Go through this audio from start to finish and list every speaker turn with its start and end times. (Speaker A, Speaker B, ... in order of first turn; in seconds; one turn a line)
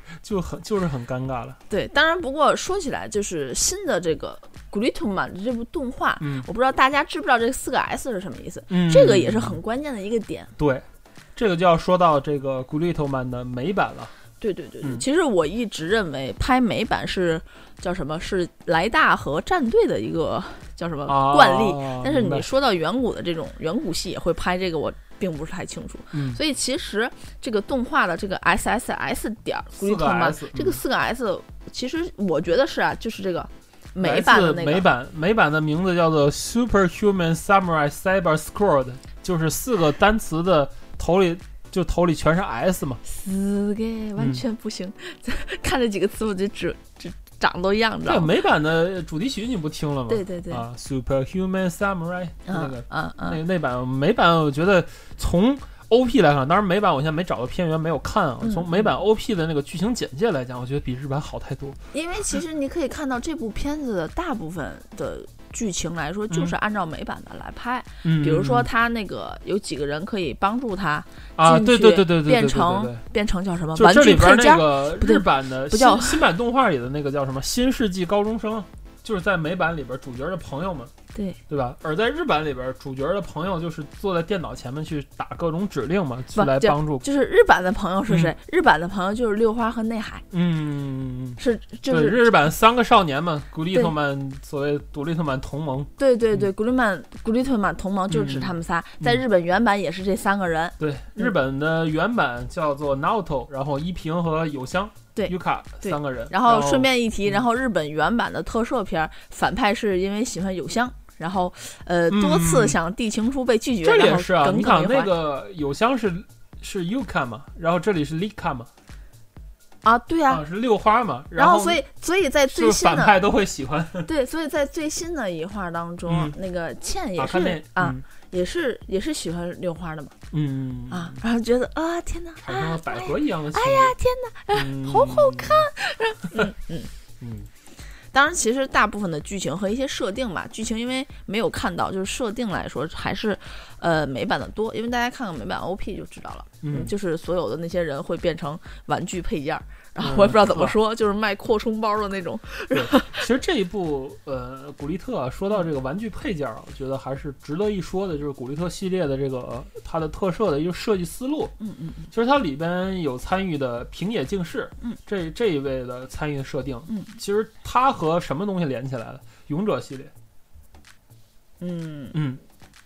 Speaker A: 0.2-1.6
Speaker B: 1.7-10.5
Speaker A: 6.2-6.5
Speaker A: 8.7-9.6
Speaker A: 10.6-14.1
Speaker B: 14.4-34.9
Speaker A: 21.1-22.5
Speaker A: 26.1-26.4
Speaker A: 29.7-30.8
Speaker A: 34.0-43.0
Speaker B: 43.0-48.3
Speaker A: 48.0-61.8
Speaker B: 50.1-50.6
Speaker B: 52.5-53.4
Speaker B: 58.4-58.9
Speaker B: 61.9-76.2
Speaker A: 68.0-68.7
Speaker A: 71.4-73.0
Speaker A: 73.8-80.9
Speaker B: 81.1-81.4
Speaker A: 81.5-87.0
Speaker B: 86.3-90.2
Speaker A: 88.1-88.3
Speaker A: 90.3-96.5
Speaker B: 91.4-92.2
Speaker B: 96.0-101.3
Speaker A: 98.1-99.2
Speaker A: 100.8-107.4
Speaker B: 105.1-115.1
Speaker A: 112.1-112.8
Speaker A: 113.8-118.7
Speaker B: 119.8-120.4
Speaker A: 120.3-121.8
Speaker B: 121.3-123.2
Speaker A: 122.5-124.1
Speaker B: 124.0-130.2
Speaker A: 126.0-126.3
Speaker A: 127.2-128.0
Speaker A: 130.3-131.2
Speaker B: 130.9-136.9
Speaker A: 132.4-133.9
Speaker A: 134.5-135.7
Speaker A: 137.2-137.5
Speaker B: 138.1-153.2
Speaker A: 146.6-146.9
Speaker A: 150.0-150.8
Speaker A: 152.7-161.5
Speaker B: 161.6-162.1
Speaker A: 162.1-170.1
Speaker B: 166.9-167.2
Speaker B: 171.6-172.2
Speaker A: 172.1-172.4